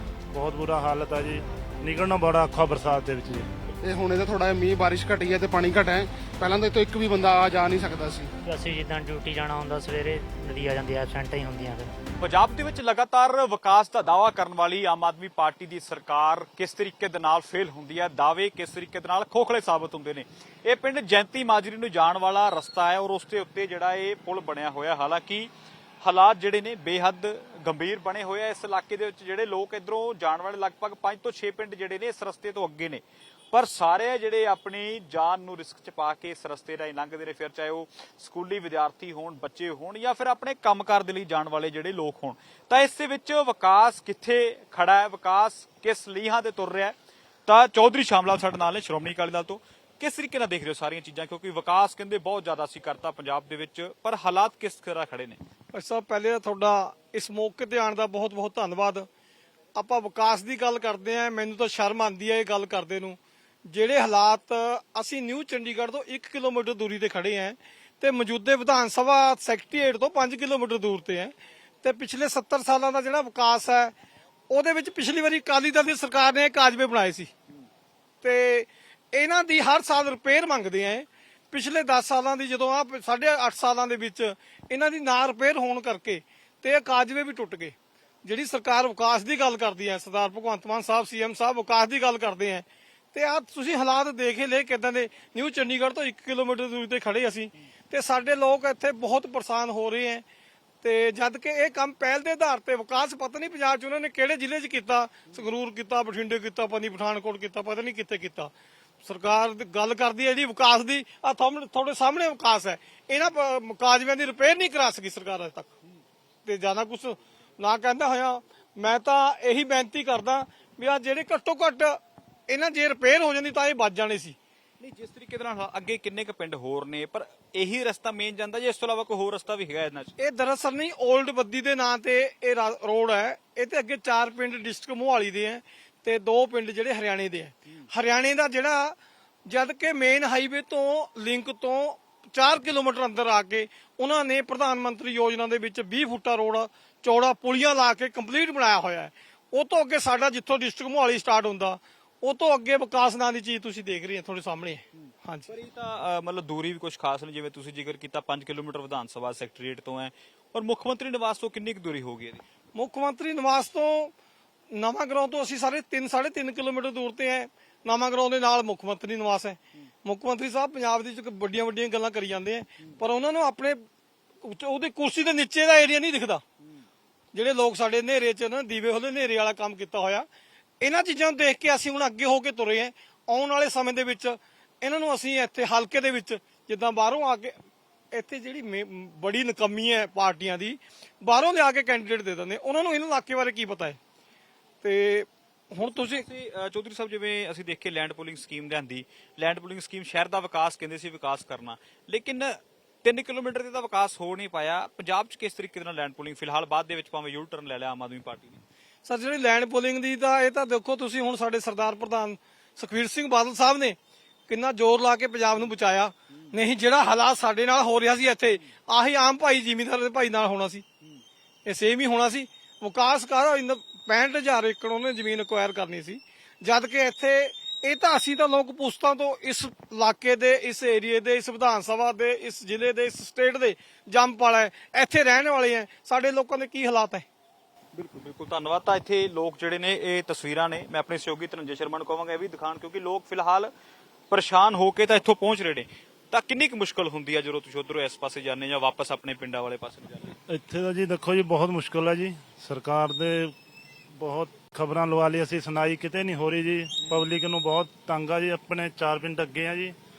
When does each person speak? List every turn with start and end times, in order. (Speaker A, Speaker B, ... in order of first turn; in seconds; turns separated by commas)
Speaker A: 0.3-3.5, Speaker B: 3.8-8.3, Speaker C: 8.4-11.9, Speaker D: 12.2-25.5, Speaker D: 26.0-46.9, Speaker D: 47.5-55.4, Speaker E: 55.8-59.0, Speaker E: 59.8-63.1, Speaker E: 63.7-71.3, Speaker E: 71.8-73.9, Speaker E: 74.5-77.3, Speaker E: 78.2-78.6, Speaker E: 79.2-87.7, Speaker E: 88.3-92.6, Speaker E: 93.1-97.4, Speaker E: 97.9-100.2, Speaker E: 100.8-108.5, Speaker E: 109.1-112.7, Speaker E: 113.4-115.7, Speaker E: 116.5-121.9, Speaker E: 122.5-124.3, Speaker D: 124.8-130.1, Speaker E: 130.3-138.9, Speaker E: 139.5-155.4, Speaker D: 155.5-162.4, Speaker E: 162.8-164.1, Speaker E: 164.7-173.8, Speaker E: 174.5-176.4, Speaker E: 177.3-180.2, Speaker E: 180.8-184.3, Speaker E: 184.8-187.5, Speaker E: 188.1-193.9, Speaker E: 194.8-195.2, Speaker D: 195.8-208.6, Speaker E: 209.1-213.9, Speaker E: 214.5-216.1, Speaker E: 216.6-220.8, Speaker E: 221.7-237.2, Speaker D: 237.9-243.7, Speaker D: 244.3-250.3, Speaker A: 250.5-253.5, Speaker A: 254.1-259.9, Speaker D: 257.0-257.2